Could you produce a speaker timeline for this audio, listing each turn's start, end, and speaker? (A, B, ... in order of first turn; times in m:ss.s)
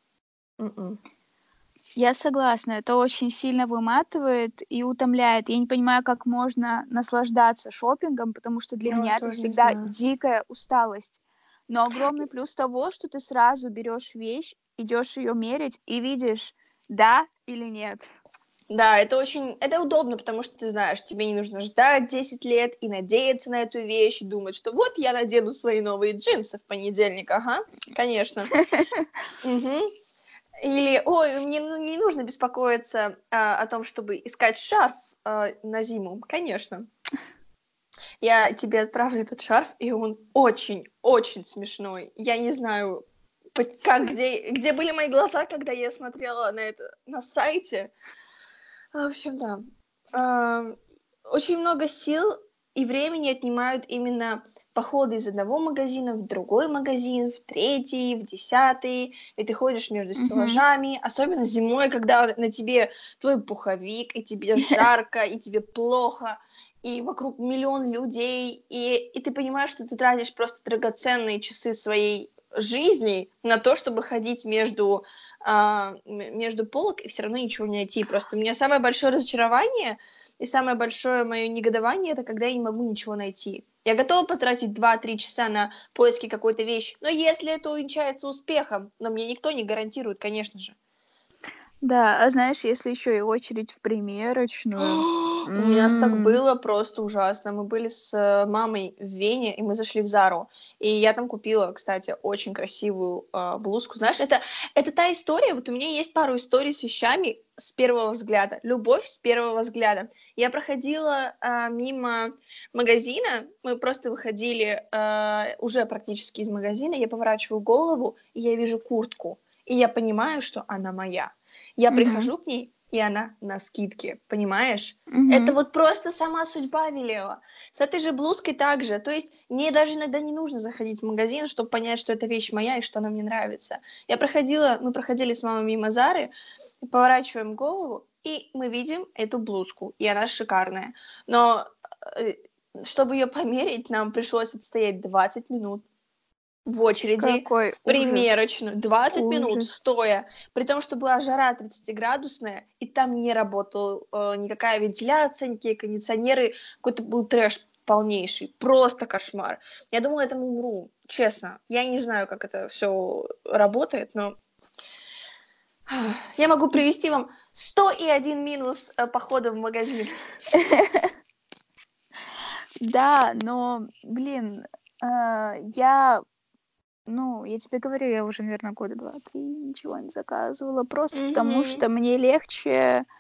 0:00.6-0:01.0 A
0:02.0-0:18.1 B
0:08.9-0:09.9 A
0:18.7-0:28.6 A
0:28.6-0:29.1 B
0:29.4-0:29.9 A
0:30.6-0:36.9 A
0:38.2-0:47.9 A
0:48.9-0:49.6 A
0:50.1-1:30.8 A
1:00.2-1:00.6 B
1:31.8-1:36.4 B
1:34.8-2:16.3 A
2:01.9-2:02.3 B
2:05.1-2:05.6 B
2:16.8-2:25.8 A
2:26.7-2:44.4 A
2:27.2-2:28.4 B
2:29.1-2:29.7 B
2:45.9-2:50.1 A
2:50.5-2:51.1 B
2:52.8-2:56.2 B
2:57.1-3:03.1 B
3:01.1-3:01.8 A